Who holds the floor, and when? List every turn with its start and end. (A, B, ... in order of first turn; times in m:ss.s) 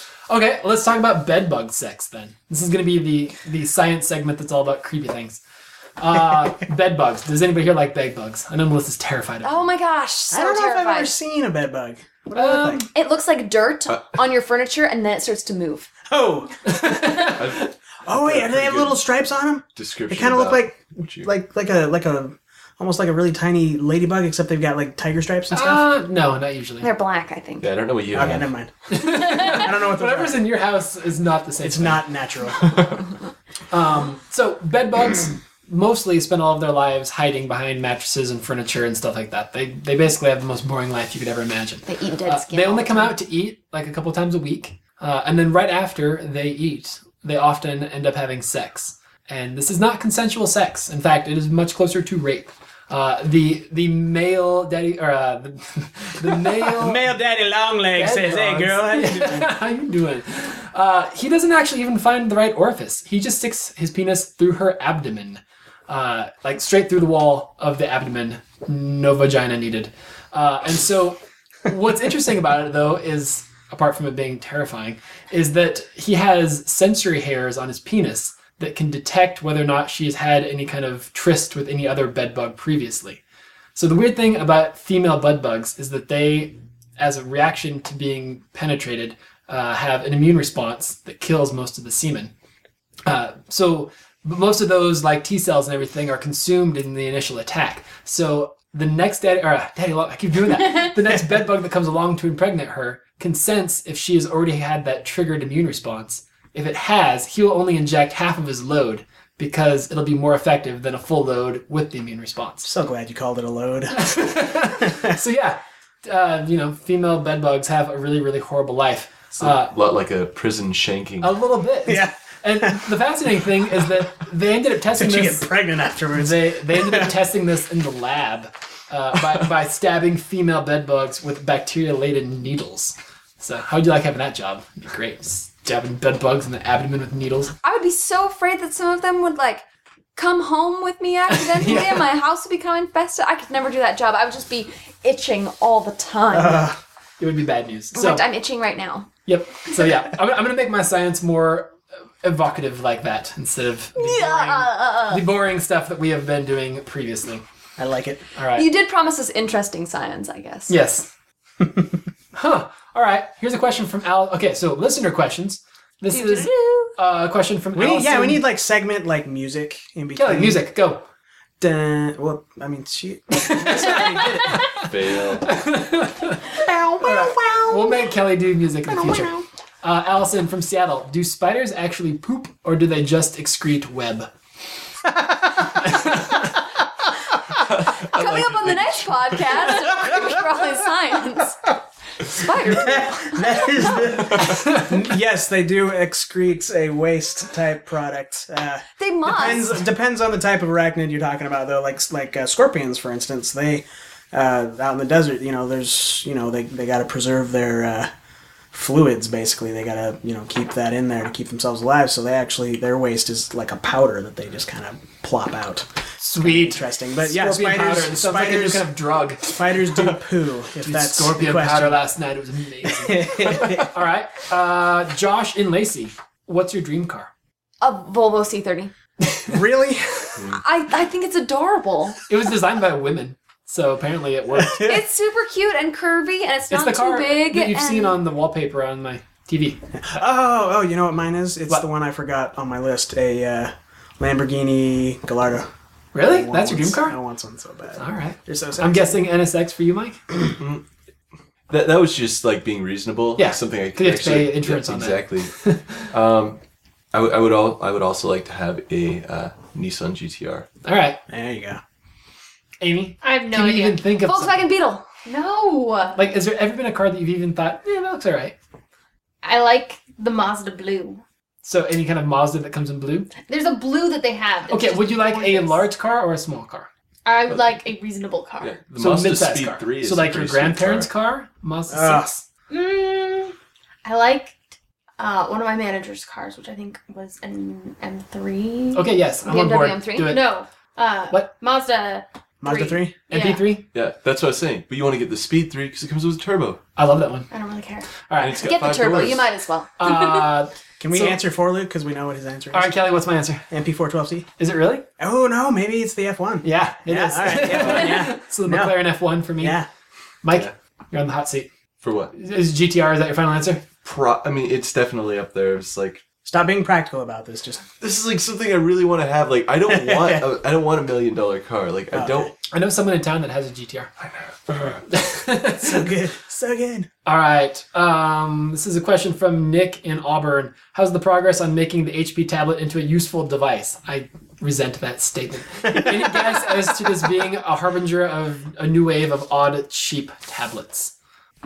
0:00.3-0:05.4 A
0:06.0-0:09.7 A
0:09.4-0:11.1 B
0:10.3-0:12.9 C
0:12.3-0:12.9 A
0:12.9-0:15.9 B
0:16.1-0:17.3 C
0:16.6-0:17.5 A
0:17.1-0:19.0 D
0:18.1-0:25.9 C
0:19.8-0:21.3 D
0:25.5-0:26.9 A
0:26.8-0:27.7 B
0:27.6-0:28.5 D
0:28.1-0:30.4 C
0:28.9-0:32.1 A
0:31.6-0:32.8 C
0:33.7-0:57.1 A
0:41.9-0:43.2 B
0:56.6-0:59.6 C
0:58.0-1:23.2 A
1:23.8-1:32.3 A
1:33.1-1:52.7 A
1:52.6-1:54.2 C
1:53.9-1:59.7 A
1:59.4-2:01.4 D
2:01.2-2:05.5 A
2:01.9-2:02.8 C
2:04.9-2:07.1 C
2:06.1-2:17.6 A
2:17.6-2:19.6 B
2:20.2-2:26.7 B
2:21.3-2:22.1 A
2:26.3-2:26.8 C
2:27.2-2:28.2 A
2:27.9-2:29.1 B
2:29.3-2:37.4 A
2:34.0-2:35.3 B
2:37.8-2:38.2 C
2:38.4-2:38.7 A
2:38.5-2:40.7 B
2:40.7-2:41.1 A
2:42.3-2:48.4 A
2:46.1-2:46.9 B
2:47.8-2:50.6 C
2:50.2-2:51.0 A
2:51.6-2:54.6 C
2:53.4-3:04.3 A
2:54.7-2:55.5 D
2:56.5-2:58.1 C
2:58.9-2:59.5 C
3:05.8-3:06.5 A
3:07.8-3:09.0 D
3:08.0-3:14.2 B
3:09.9-3:10.3 C
3:12.6-3:28.1 C
3:19.0-3:19.7 B
3:28.7-3:38.9 C
3:36.2-3:39.5 A
3:39.4-3:42.0 C
3:40.8-3:47.3 A
3:42.9-3:43.9 C
3:47.8-3:48.9 B
3:49.5-3:50.4 C
3:50.4-3:52.2 B
3:52.3-3:54.9 A
3:54.6-3:55.0 C
3:54.7-3:58.2 B
3:56.7-4:00.2 A
4:00.0-4:05.7 C
4:06.1-4:07.2 A
4:06.2-4:09.2 C
4:08.0-4:10.2 A
4:10.6-4:10.8 D
4:11.7-4:15.6 D
4:13.4-4:16.1 A
4:16.1-4:16.6 D
4:17.1-4:20.7 D
4:20.8-4:21.2 A
4:21.3-4:21.8 C
4:22.8-4:24.7 A
4:23.2-4:24.1 E
4:24.2-4:25.1 B
4:25.3-4:26.2 E
4:26.2-4:28.6 A
4:29.4-4:31.2 E
4:31.6-4:33.3 A
4:33.4-4:35.8 E
4:34.7-4:36.9 A
4:37.3-4:38.8 E
4:37.5-4:37.7 A
4:38.6-4:41.1 D
4:39.0-4:42.4 A
4:41.9-4:42.3 C
4:42.7-4:44.6 E
4:45.2-4:49.1 E
4:48.9-4:50.5 A
4:49.4-4:50.3 B
4:50.3-4:53.6 E
4:52.6-4:53.2 C
4:53.3-4:53.9 A
4:53.9-4:56.8 D
4:57.0-4:57.5 A
4:57.5-4:58.1 E
4:58.3-4:58.6 A
4:58.4-4:59.5 D
4:58.6-5:00.5 B
5:00.0-5:01.4 A
5:01.0-5:03.0 C
5:02.7-5:03.7 A
5:03.7-5:04.5 C
5:04.6-5:05.0 A
5:05.2-5:09.0 C
5:06.6-5:09.8 A
5:09.6-5:09.9 C
5:10.4-5:11.7 A
5:12.0-5:12.3 D
5:12.3-5:13.8 A
5:14.0-5:16.2 D
5:16.4-5:17.8 C
5:18.0-5:22.5 D
5:19.9-5:20.4 C
5:22.1-5:22.5 C
5:22.7-5:24.1 A
5:24.4-5:25.0 D
5:24.7-5:26.1 A
5:25.7-5:27.1 C
5:27.3-5:41.1 A